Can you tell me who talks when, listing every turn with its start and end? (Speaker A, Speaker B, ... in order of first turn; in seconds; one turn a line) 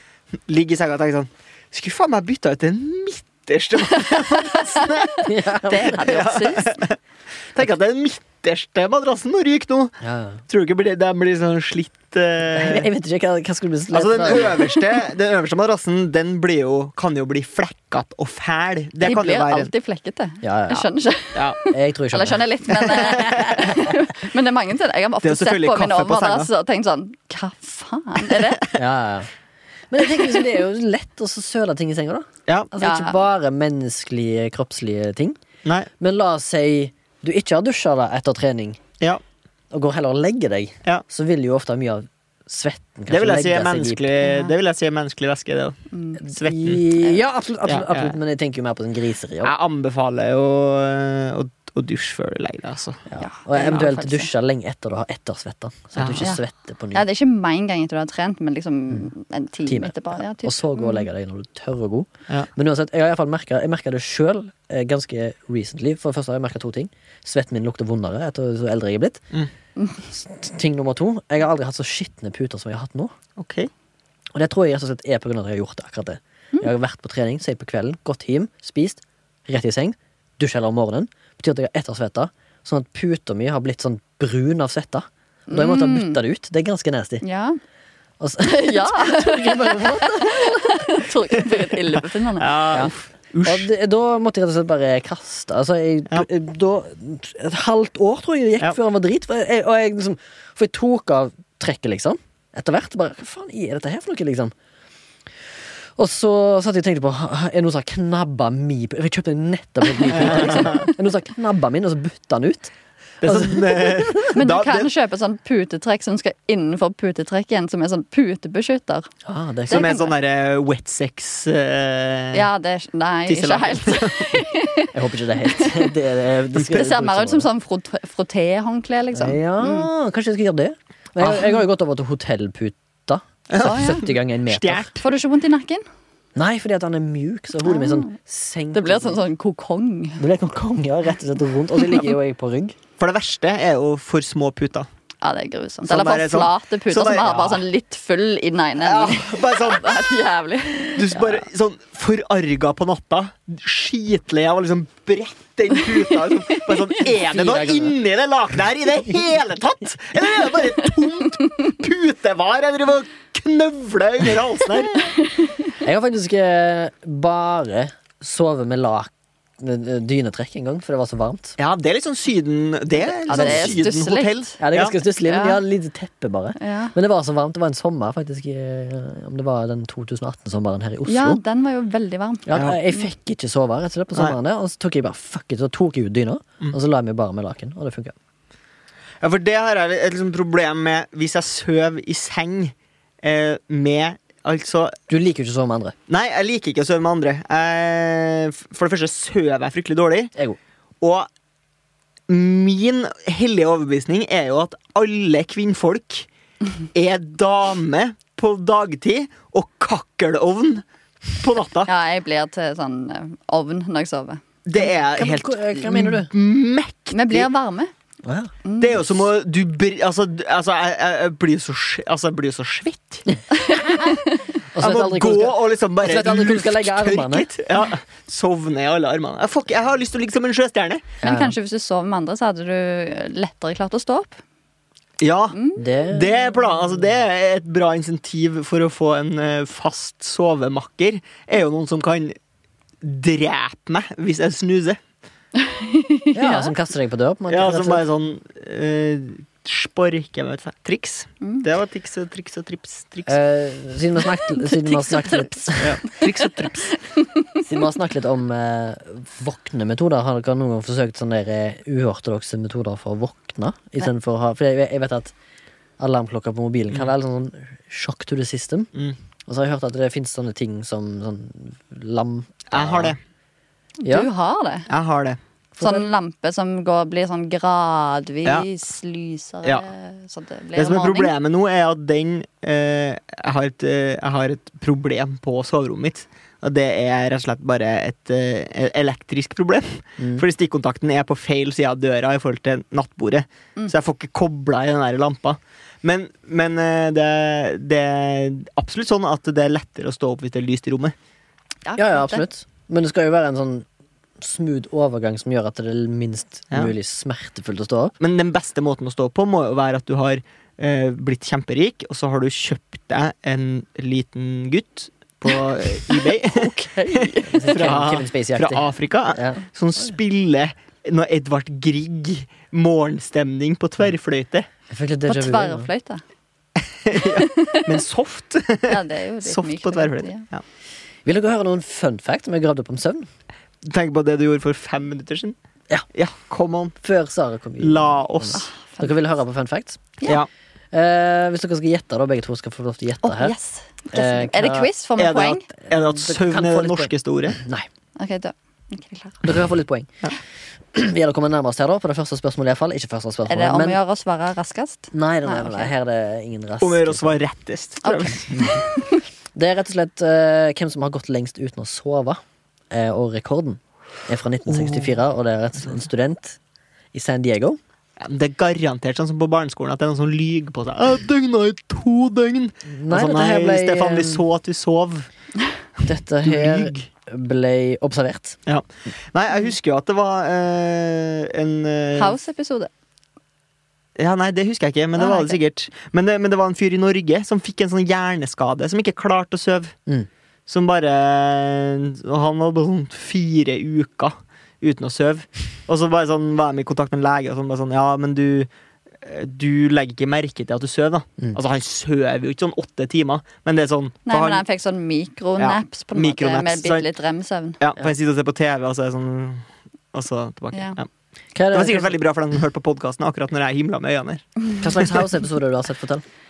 Speaker A: 0.5-5.3
Speaker B: 4.0-6.8
Speaker C: 5.2-6.2
Speaker A: 5.9-7.0
Speaker A: 7.5-12.9
Speaker C: 10.0-10.4
Speaker C: 12.5-14.8
Speaker A: 13.9-19.7
Speaker B: 19.0-28.7
Speaker C: 20.4-20.9
Speaker C: 21.7-22.5
Speaker A: 23.1-23.4
Speaker C: 23.2-23.9
Speaker A: 25.2-26.5
Speaker C: 28.7-29.3
Speaker C: 29.9-35.4
Speaker A: 32.5-32.7
Speaker B: 32.8-33.2
Speaker C: 36.0-38.8
Speaker C: 39.7-44.1
Speaker A: 43.1-45.8
Speaker B: 44.2-44.5
Speaker B: 45.9-46.2
Speaker A: 46.3-46.9
Speaker C: 46.3-49.5
Speaker A: 47.6-48.1
Speaker A: 49.4-53.0
Speaker C: 53.1-57.0
Speaker B: 53.2-54.3
Speaker A: 56.0-56.3
Speaker B: 56.9-61.1
Speaker C: 59.6-69.3
Speaker C: 70.1-73.1
Speaker A: 73.4-73.7
Speaker C: 74.3-87.2
Speaker B: 85.5-86.2
Speaker B: 87.2-87.6
Speaker C: 88.2-91.0
Speaker B: 88.4-92.6
Speaker A: 92.4-93.7
Speaker C: 93.4-104.5
Speaker C: 106.0-114.3
Speaker A: 110.1-110.9
Speaker A: 113.2-114.9
Speaker B: 114.3-119.1
Speaker C: 119.2-120.0
Speaker B: 119.7-120.1
Speaker A: 119.7-122.5
Speaker B: 122.3-125.9
Speaker A: 123.3-124.4
Speaker C: 124.9-127.5
Speaker B: 126.5-129.4
Speaker C: 129.1-134.9
Speaker A: 131.2-131.5
Speaker A: 133.5-135.0
Speaker B: 133.5-134.1
Speaker B: 135.0-135.8
Speaker C: 136.3-139.2
Speaker B: 137.6-138.1
Speaker B: 138.7-140.2
Speaker C: 140.2-142.8
Speaker A: 143.0-144.9
Speaker B: 145.2-151.3
Speaker A: 145.9-147.6
Speaker A: 148.8-150.2
Speaker A: 150.9-165.1
Speaker B: 156.3-157.0
Speaker C: 157.2-157.9
Speaker B: 164.9-165.7
Speaker C: 165.8-171.6
Speaker A: 171.6-174.9
Speaker B: 173.2-174.6
Speaker C: 173.3-173.8
Speaker C: 174.6-181.4
Speaker B: 175.2-175.6
Speaker B: 176.6-176.9
Speaker B: 181.1-183.1
Speaker C: 182.5-188.1
Speaker A: 182.5-182.8
Speaker A: 189.2-194.9
Speaker C: 195.1-195.9
Speaker A: 196.1-200.3
Speaker A: 201.0-201.3
Speaker A: 202.3-206.3
Speaker A: 206.9-211.9
Speaker B: 211.8-214.4
Speaker A: 214.6-217.5
Speaker C: 215.2-216.3
Speaker B: 217.1-217.9
Speaker C: 218.2-218.5
Speaker B: 218.6-219.0
Speaker A: 218.8-223.3
Speaker B: 223.5-224.5
Speaker C: 223.7-224.2
Speaker C: 224.7-227.5
Speaker A: 224.8-231.1
Speaker C: 231.2-231.5
Speaker B: 231.2-234.4
Speaker A: 235.2-242.3
Speaker B: 235.5-235.9
Speaker C: 235.8-236.3
Speaker A: 243.0-245.0
Speaker B: 245.5-246.7
Speaker C: 246.3-248.0
Speaker A: 247.5-253.4
Speaker B: 251.4-251.7
Speaker C: 253.3-256.0
Speaker B: 254.3-257.6
Speaker A: 255.8-256.9
Speaker C: 257.6-265.3
Speaker C: 266.0-268.9
Speaker C: 269.5-273.2
Speaker A: 272.7-273.2
Speaker B: 274.0-274.9
Speaker A: 274.9-275.4
Speaker C: 275.7-276.1
Speaker B: 275.8-281.3
Speaker A: 280.8-301.1
Speaker C: 290.2-290.4
Speaker B: 301.9-302.4
Speaker C: 302.0-303.9
Speaker C: 304.4-308.1
Speaker A: 308.2-324.7
Speaker B: 316.1-317.7
Speaker C: 317.4-320.1
Speaker C: 324.9-325.9
Speaker B: 325.3-326.2
Speaker A: 326.9-330.6
Speaker B: 327.1-327.9
Speaker B: 328.9-330.5
Speaker C: 331.2-333.3
Speaker A: 333.8-335.6
Speaker A: 336.1-337.0
Speaker C: 337.0-340.0
Speaker A: 337.8-338.7
Speaker B: 338.5-339.2
Speaker C: 340.9-343.5
Speaker B: 343.2-345.7
Speaker C: 344.1-344.9
Speaker A: 345.2-347.6
Speaker C: 345.8-347.9
Speaker B: 348.2-349.5
Speaker C: 349.4-350.1
Speaker C: 350.9-354.0
Speaker B: 353.4-355.9
Speaker C: 355.1-357.4
Speaker A: 356.8-358.7
Speaker B: 358.0-359.2
Speaker C: 359.5-366.6
Speaker A: 364.7-365.2
Speaker C: 367.1-367.8
Speaker A: 368.2-375.3
Speaker C: 372.9-374.4
Speaker A: 376.0-377.1
Speaker C: 376.1-378.6
Speaker A: 378.6-382.3
Speaker B: 382.1-382.9
Speaker A: 384.2-389.9
Speaker B: 385.2-385.6
Speaker A: 390.7-398.7
Speaker A: 399.2-404.6
Speaker B: 404.2-407.8
Speaker A: 405.6-407.1
Speaker A: 407.8-411.1
Speaker B: 410.7-411.0
Speaker C: 411.5-412.1
Speaker A: 411.7-414.4
Speaker C: 414.8-416.2